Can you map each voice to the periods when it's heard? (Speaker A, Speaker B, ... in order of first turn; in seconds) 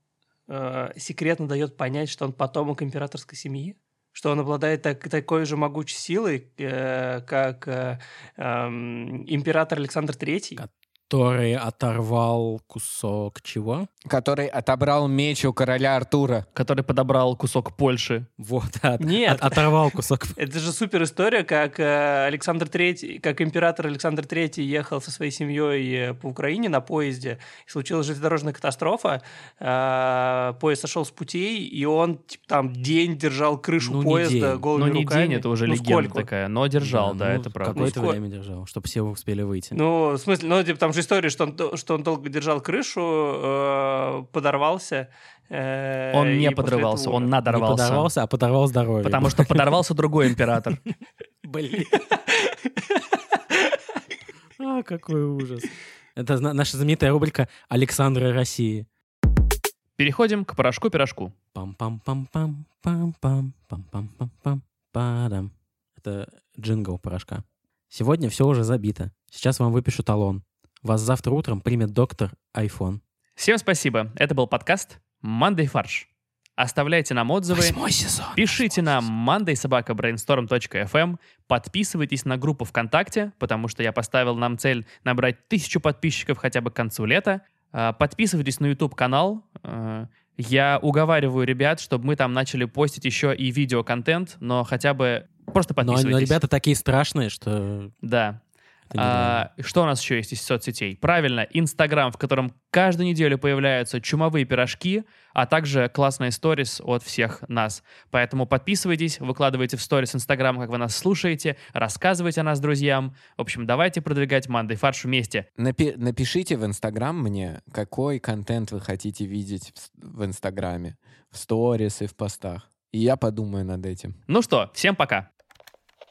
Speaker A: 0.5-10.6, 19.0-19.7, 20.3-36.3, 37.7-38.2, 39.7-47.3
Speaker B: 10.6-13.9, 18.4-20.4, 33.8-34.6, 36.8-39.8, 47.5-49.8, 51.4-52.0, 54.6-58.9, 61.5-73.0, 77.5-79.1, 95.8-97.9, 98.9-99.4
Speaker C: 14.1-16.5, 115.6-124.2
Speaker D: 16.5-18.3, 34.8-37.9, 46.1-48.1, 49.0-50.8, 60.0-61.3, 73.4-77.8, 78.3-96.4, 98.0-98.4, 99.0-115.4, 124.3-125.3